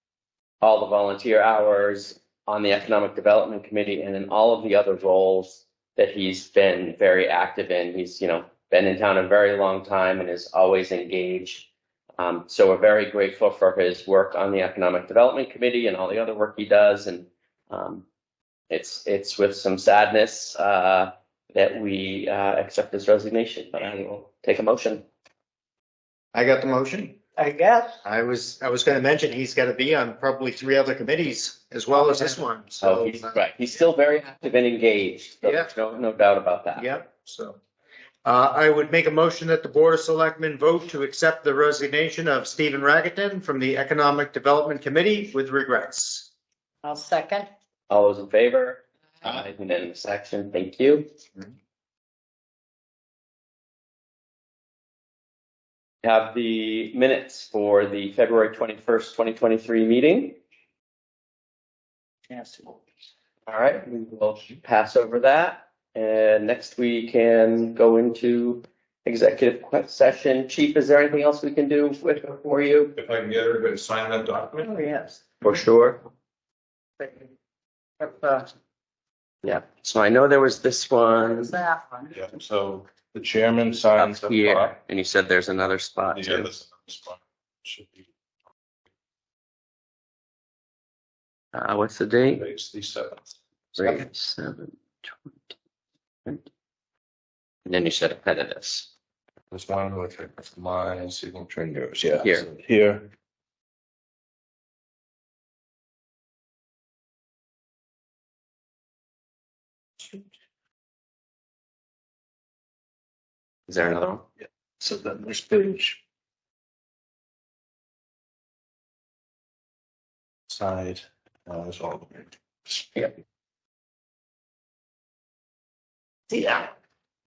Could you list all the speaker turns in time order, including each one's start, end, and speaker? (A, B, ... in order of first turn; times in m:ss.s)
0:00.6-0:18.0 A
0:18.7-0:25.0 A
0:26.3-0:27.2 B
0:27.4-0:28.0 C
0:28.0-0:33.4 B
0:32.8-0:36.9 A
0:35.4-0:35.7 B
0:36.8-0:37.6 B
0:38.2-0:46.3 B
0:46.8-0:47.5 C
0:47.9-0:51.1 A
0:56.0-1:00.4 A
1:02.3-1:02.8 C
1:03.5-1:13.0 A
1:13.0-1:14.7 D
1:14.6-1:15.2 C
1:15.4-1:16.0 A
1:17.0-1:17.3 C
1:18.0-1:18.5 C
1:19.4-1:21.5 A
1:21.2-1:22.1 C
1:22.1-1:24.8 D
1:24.0-1:26.5 A
1:26.1-1:28.0 D
1:31.5-1:32.4 A
1:32.3-1:33.2 D
1:33.8-1:35.3 A
1:37.6-1:38.9 A
1:39.5-1:43.1 D
1:42.2-1:42.5 A
1:53.7-1:54.2 A
1:54.8-1:56.0 D
2:00.5-2:02.9 D
2:06.3-2:06.7 A